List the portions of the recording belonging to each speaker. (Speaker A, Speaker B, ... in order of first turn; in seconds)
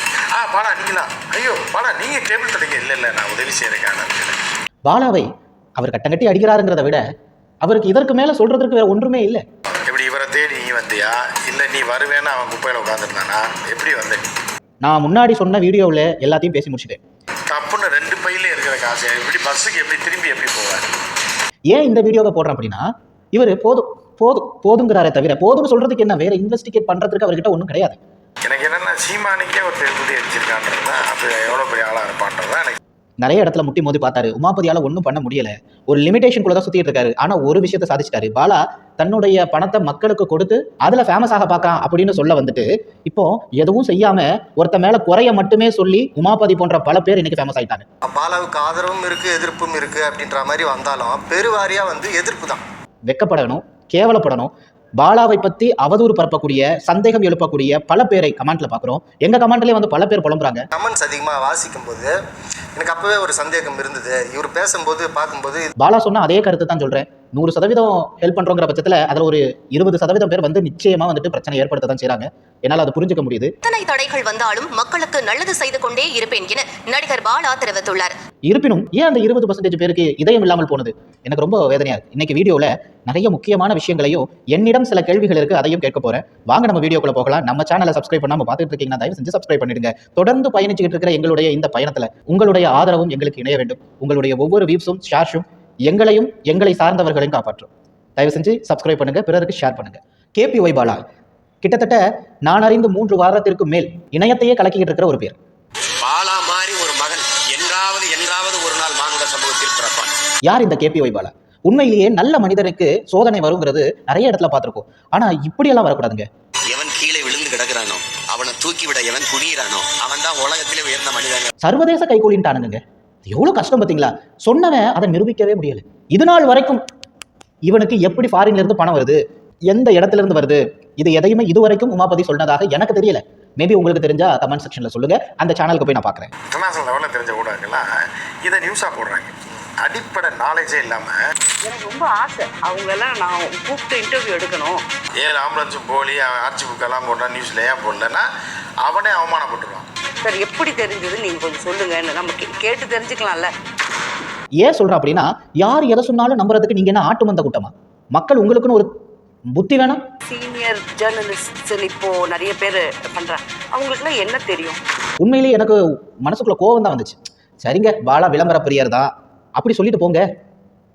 Speaker A: 0.3-4.4, 9.7-14.3, 17.5-20.9, 28.5-32.8, 136.5-137.9, 138.4-141.2, 145.2-148.3, 148.8-149.9
Speaker B: 4.9-7.0, 7.6-9.4, 14.8-17.0, 21.7-28.0, 33.2-47.9, 53.1-60.6, 65.8-73.5, 78.5-101.0, 101.6-105.4, 110.5-116.3, 121.6-126.8, 127.7-136.3, 154.6-158.9, 159.6-160.0, 165.2-170.2
Speaker C: 48.0-52.6, 60.7-62.1, 62.8-65.7
Speaker D: 73.6-78.2
Speaker E: 106.1-110.1, 116.7-121.4
Speaker F: 141.7-144.8, 150.2-153.5, 160.3-164.8